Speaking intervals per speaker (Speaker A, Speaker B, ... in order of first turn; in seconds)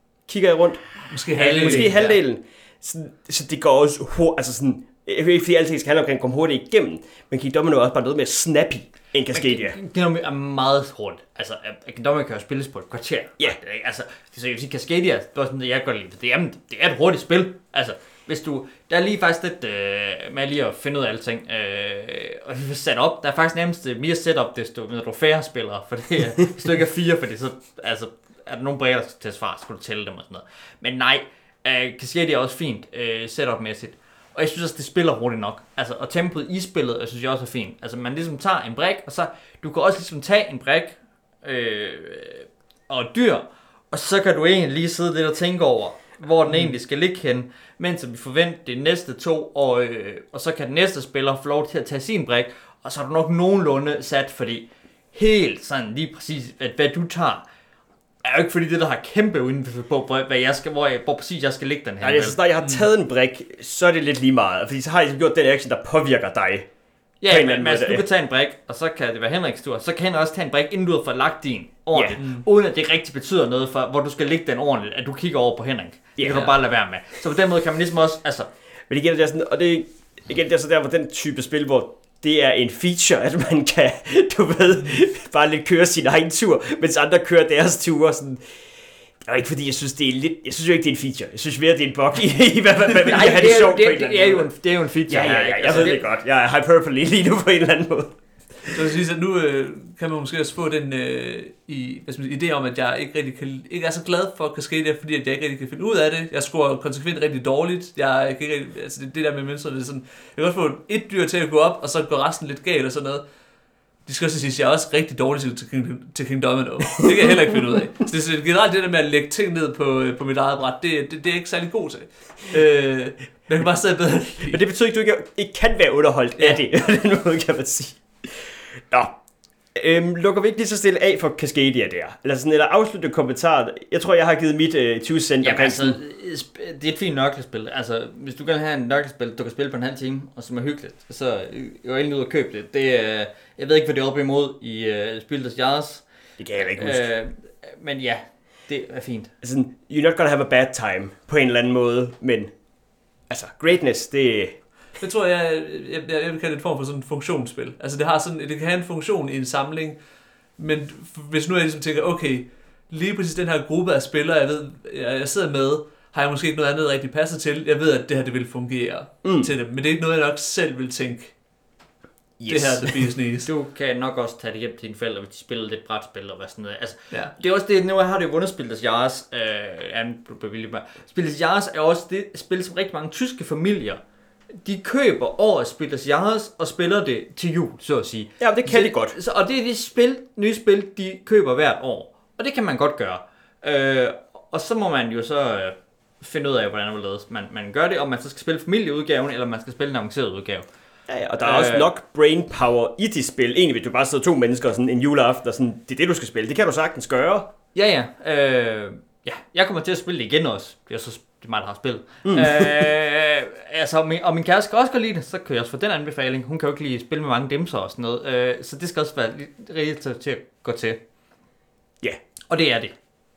Speaker A: 0.3-0.8, 1.3-9.8, 62.0-66.7, 67.3-68.0, 71.9-72.2, 76.2-76.5, 78.9-88.5, 89.2-94.5, 95.1-98.8, 124.4-129.2, 129.8-136.0, 146.4-147.1, 149.4-152.5, 153.3-154.6, 169.2-169.5, 172.4-173.0, 188.4-189.2, 201.1-207.5, 212.2-212.9
Speaker B: 1.1-2.0, 72.2-72.4, 98.7-113.2, 114.0-124.6, 155.0-160.0, 160.6-171.3, 172.5-173.5
Speaker C: 1.4-2.2, 9.3-57.4, 58.2-62.4, 67.2-78.5, 93.0-96.0, 135.4-146.1, 146.6-149.3, 173.4-184.0, 184.6-200.7, 201.4-201.9, 207.7-221.0, 222.5-222.9